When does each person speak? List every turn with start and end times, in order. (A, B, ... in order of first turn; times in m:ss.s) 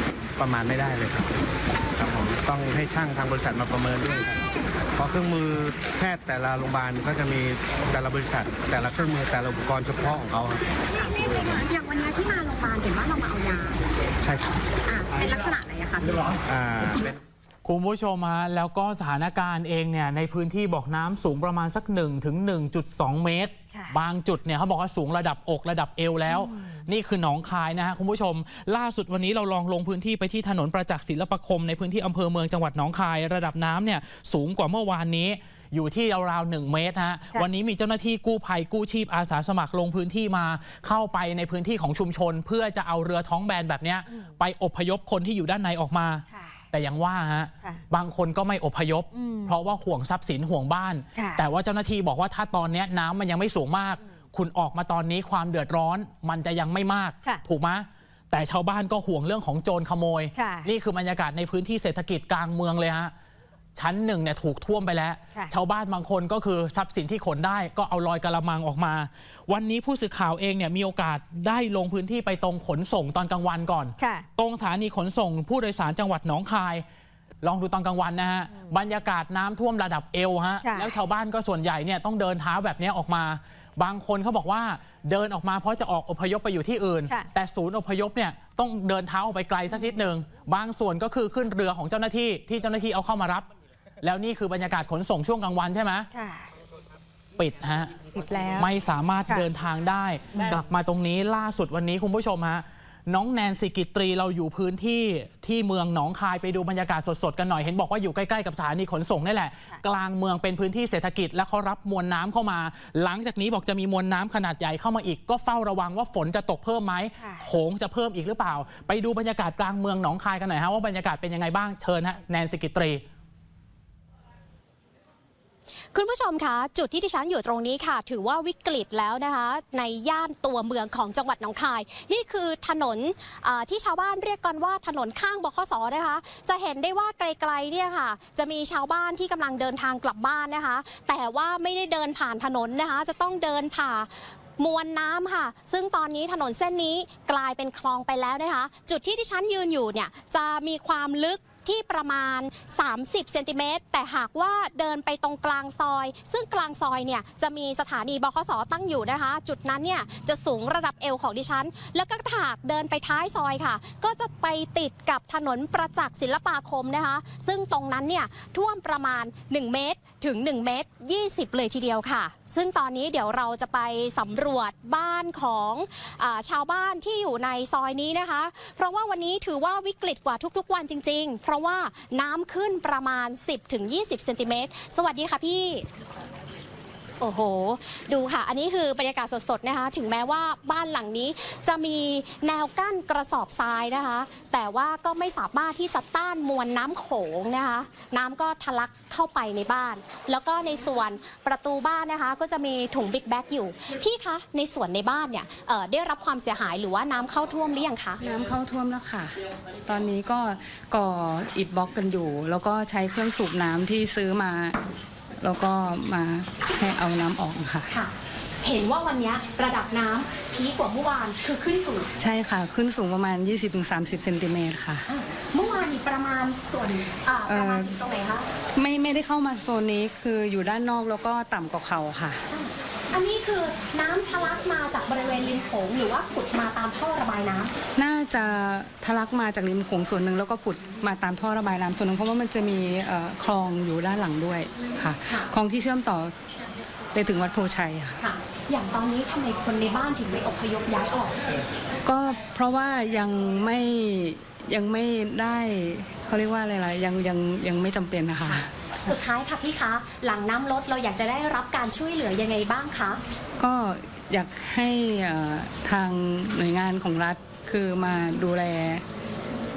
0:00.4-0:01.3 A
0:02.0-0:04.4 A
0:05.0-0:10.7 A
0:10.9-0:13.8 B
0:14.2-0:14.6 A
0:14.9-0:16.4 B
0:16.4-0:17.2 A
0:17.6-1:03.1 C
0:49.1-0:49.5 D
0:51.2-0:51.4 D
1:00.4-1:00.7 D
1:03.8-1:16.8 C
1:14.0-1:14.2 D
1:17.4-1:33.4 C
1:20.6-1:20.9 D
1:34.0-1:36.1 C
1:36.1-1:36.5 D
1:37.4-1:37.9 C
1:38.1-1:38.7 D
1:38.6-2:03.0 C
1:57.2-1:57.4 D
2:05.9-3:05.8 B
3:07.2-3:28.2 B
3:28.2-3:34.8 E
3:35.4-3:37.9 E
3:37.9-3:42.1 B
3:42.2-3:45.0 E
3:45.1-3:48.4 B
3:47.5-3:48.0 E
3:48.8-3:52.4 E
3:52.5-3:57.7 B
3:58.0-4:06.3 E
4:07.1-4:08.2 E
4:08.2-4:11.4 B
4:12.0-4:19.1 E
4:19.0-4:23.2 B
4:23.6-4:29.0 E